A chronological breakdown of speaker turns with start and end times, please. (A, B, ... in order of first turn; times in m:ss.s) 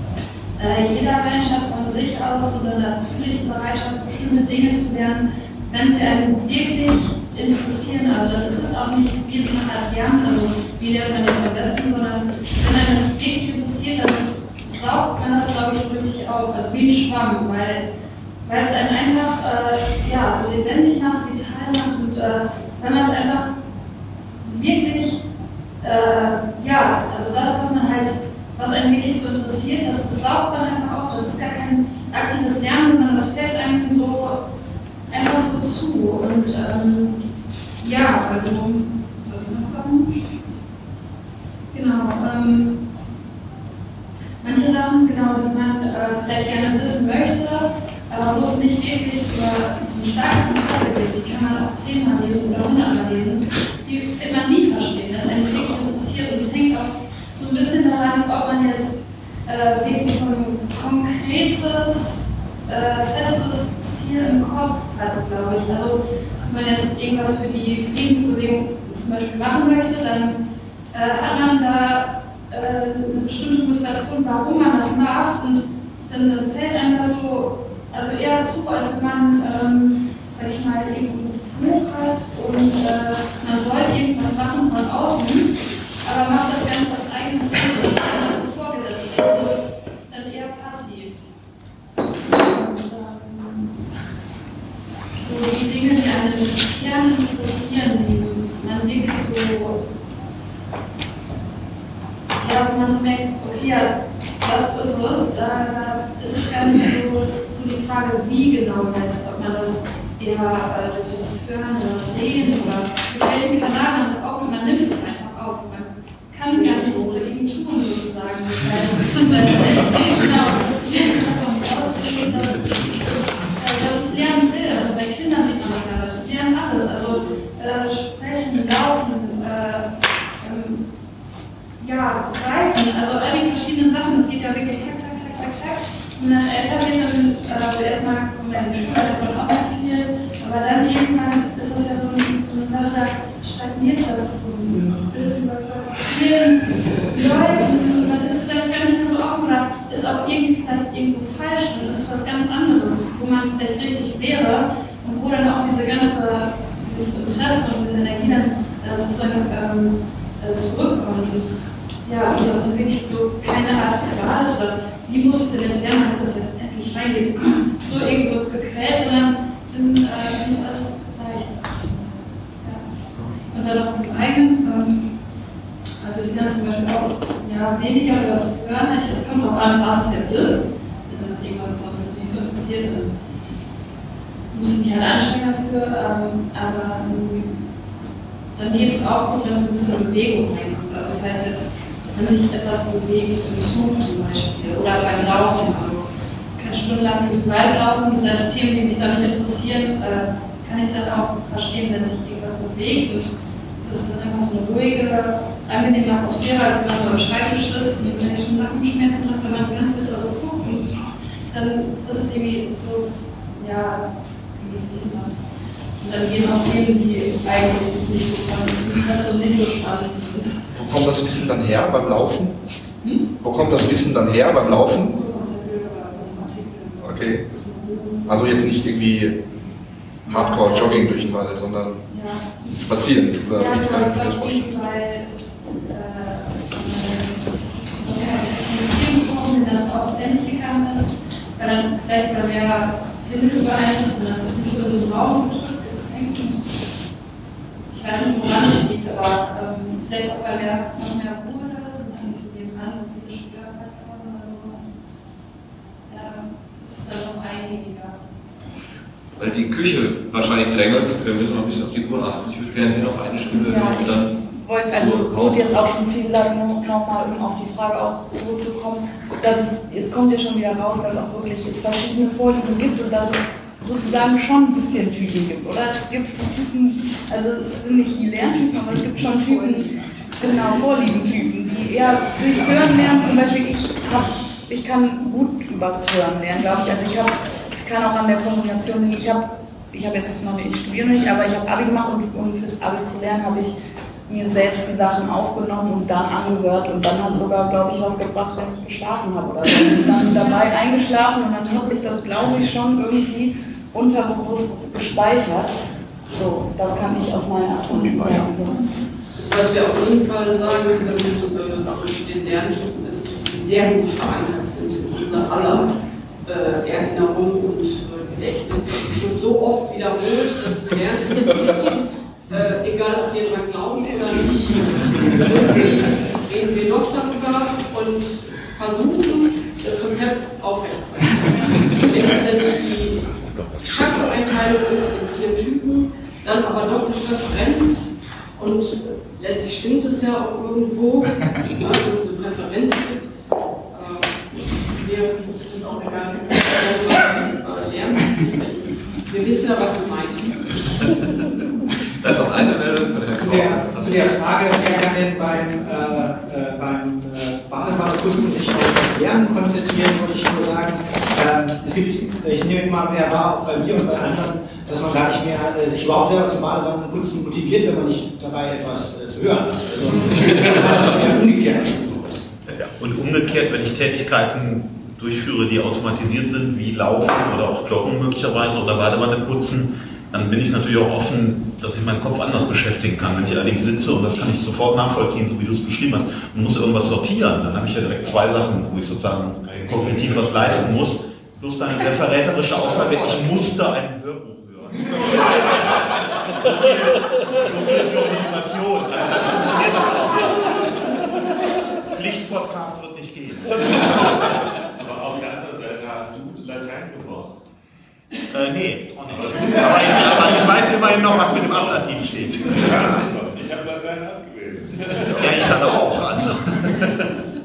0:00.6-0:17.8 A
0:18.4-0:23.5 A
0:24.4-0:25.2 A
0:25.8-0:34.4 A
0:35.1-0:37.2 A
0:37.8-0:40.1 A
0:41.7-0:42.8 A
0:44.4-1:10.4 A
1:10.9-1:25.5 A
1:26.0-1:31.1 A
1:32.2-1:33.8 A
1:35.1-1:39.8 A
1:42.4-2:03.0 A
1:56.5-1:57.1 B
2:02.7-2:03.0 C
2:03.6-2:09.9 A
2:10.4-2:10.8 A
2:11.8-2:41.4 A
2:42.0-2:52.0 A
2:52.6-2:52.9 A
2:53.5-2:55.1 A
2:56.0-3:03.1 A
3:04.5-3:07.6 A
3:08.5-3:31.0 A
3:31.5-3:34.0 A
3:34.6-3:35.3 A
3:36.0-3:40.6 A
3:40.7-3:42.5 D
3:43.4-3:45.1 D
3:45.1-3:48.4 A
3:47.0-3:47.4 D
3:48.3-3:49.4 D
3:50.3-3:51.4 A
3:50.3-3:52.0 D
3:52.1-3:52.6 A
3:52.6-3:54.7 D
3:53.5-4:06.6 A
4:07.9-4:14.9 A
4:16.1-4:18.2 A
4:19.4-4:24.3 E
4:23.5-4:53.7 F
4:24.9-4:25.9 E
4:54.3-5:05.7 F
5:06.3-5:08.8 F
5:09.4-5:15.9 B
5:16.5-5:43.3 B
5:43.9-5:50.6 B
5:52.2-5:54.4 E
5:53.4-6:12.5 G
6:12.8-6:41.2 C
6:29.6-6:31.1 H
6:42.0-6:44.4 C
6:44.2-6:47.6 H
6:48.5-6:53.3 C
6:49.2-6:51.5 H
6:52.1-6:56.0 H
6:55.3-6:57.3 C